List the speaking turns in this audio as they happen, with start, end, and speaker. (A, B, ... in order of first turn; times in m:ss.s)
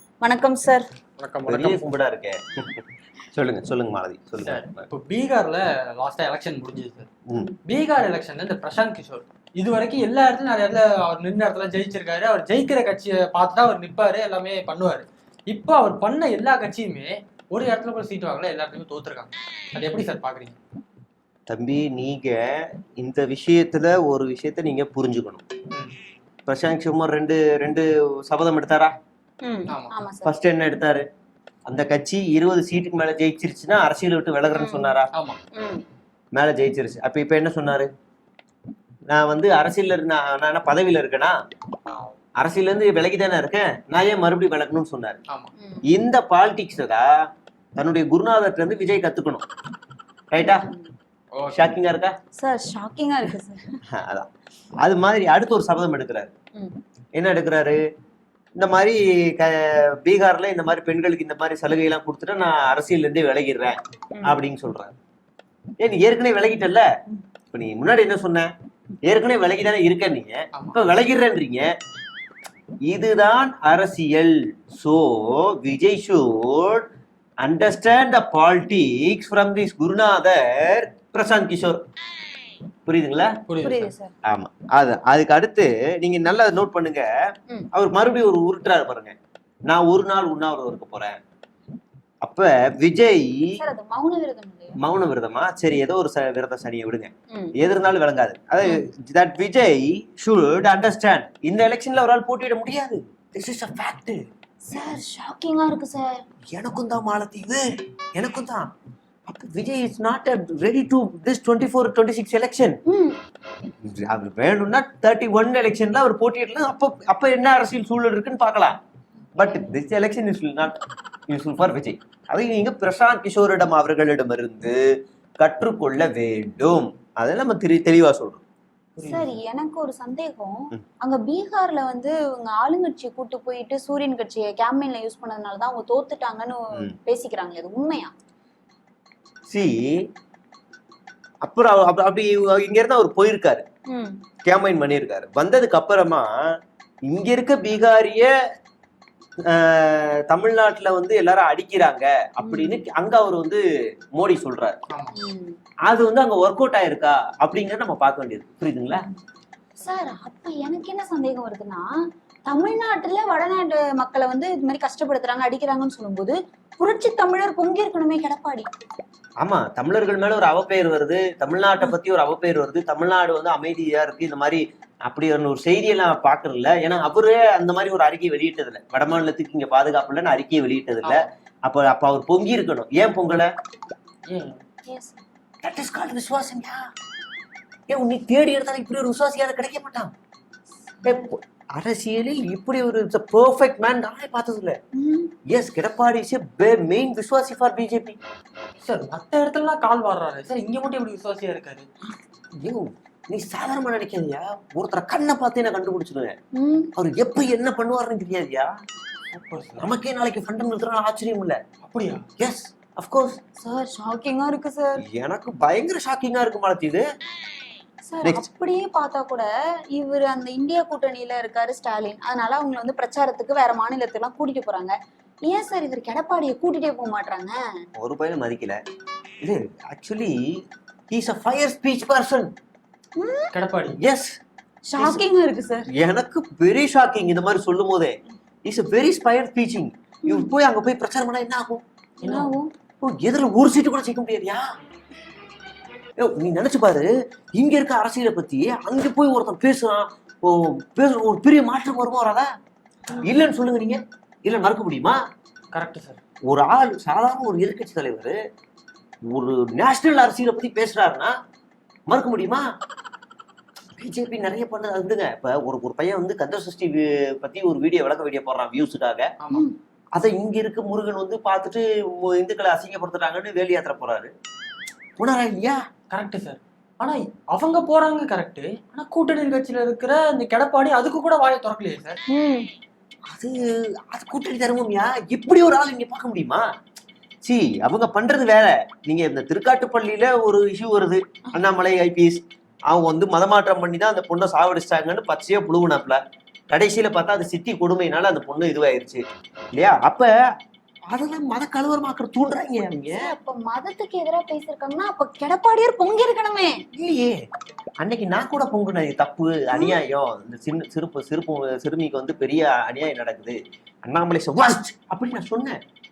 0:00.2-0:00.9 A
0:01.2-0:01.9 B
0:01.5-0:04.9 C
0:04.4-0:07.1 B
0:07.6-0:20.6 B
0:21.5-0:25.4 C
0:26.5-0:28.9 C
0:29.4-0:30.3 A
0:29.7-0:29.9 B
0:30.2-0:31.0 C
0:31.7-0:35.1 C
0:34.5-0:35.0 A
0:35.1-0:35.4 B
0:35.5-0:35.8 A
0:36.4-0:37.9 C
0:39.1-0:41.4 C
0:42.4-0:45.2 C
0:45.6-0:45.8 A
0:45.9-0:47.1 C
0:47.8-0:49.4 C
0:50.3-0:50.7 C
0:50.4-0:50.9 A
0:51.3-0:51.8 B
0:51.5-0:52.2 C
0:52.4-0:53.8 A
0:53.9-0:54.3 C
0:54.8-0:56.3 C
0:57.2-0:57.8 C
0:58.6-1:04.9 C
1:04.2-1:04.4 A
1:05.8-1:06.9 C
1:07.5-1:08.5 C
1:09.0-1:11.7 C
1:12.9-1:16.9 C
1:17.4-1:21.8 C
1:22.9-1:23.3 C
1:23.5-1:23.9 B
1:23.6-1:24.1 A
1:24.3-1:27.1 C
1:27.7-1:29.2 C
1:29.7-1:31.2 C
1:32.2-1:33.5 C
1:33.6-1:34.8 A
1:34.8-1:44.3 C
1:44.7-1:46.2 A
1:46.5-1:48.7 C
1:49.3-1:52.8 C
1:52.9-1:53.2 A
1:53.8-1:58.8 C
1:59.4-2:00.8 C
1:59.4-1:59.7 A
2:01.3-2:04.8 C
2:05.4-2:08.4 C
2:09.0-2:09.4 B
2:09.0-2:18.1 A
2:19.5-2:20.1 C
2:21.4-2:23.6 C
2:23.9-2:24.2 A
2:24.4-2:26.3 C
2:27.1-2:28.3 C
2:29.5-2:33.6 C
2:32.4-2:32.8 A
2:34.2-2:34.8 C
2:34.9-2:35.2 B
2:35.2-2:35.6 A
2:35.9-2:39.0 C
2:39.8-2:41.9 A
2:42.5-2:48.7 A
2:49.4-3:03.5 C
3:01.0-3:01.3 B
3:04.3-3:04.6 B
3:04.9-3:05.2 A
3:05.6-3:06.8 C
3:07.9-3:10.1 C
3:11.0-3:11.3 A
3:11.0-3:14.8 C
3:14.9-3:15.3 A
3:15.5-3:18.2 C
3:18.8-3:21.9 B
3:22.6-3:26.3 C
3:26.5-3:26.9 A
3:27.0-3:28.7 C
3:29.3-3:29.9 B
3:29.8-3:31.6 C
3:31.8-3:32.3 B
3:32.4-3:33.4 C
3:33.6-3:35.0 A
3:35.0-3:37.0 C
3:38.1-3:45.0 A
3:45.5-3:47.6 A
3:48.0-3:48.8 C
3:49.4-3:50.4 C
3:51.1-3:52.5 C
3:53.2-3:53.5 A
3:53.5-3:54.0 B
3:54.0-3:54.4 C
3:54.9-3:55.9 A
3:55.0-3:55.2 C
3:55.9-4:01.8 C
4:00.2-4:00.5 A
4:02.2-4:02.7 A
4:02.2-4:02.5 B
4:03.0-4:04.6 C
4:06.2-4:12.5 C
4:13.2-4:15.2 C
4:15.7-4:16.2 B
4:16.5-4:18.4 C
4:19.3-4:21.4 C
4:22.1-4:22.6 C
4:24.0-4:29.3 C
4:29.4-4:29.7 B
4:30.2-4:34.3 C
4:35.2-4:35.8 C
4:36.1-4:42.2 B
4:42.3-4:42.7 A
4:43.3-4:43.6 C
4:44.1-4:46.6 C
4:47.4-4:56.2 C
4:56.7-4:59.2 C
4:59.8-5:00.3 C
5:01.1-5:03.4 C
5:03.1-5:06.8 A
5:06.9-5:07.4 C
5:08.0-5:15.8 C
5:09.7-5:10.0 A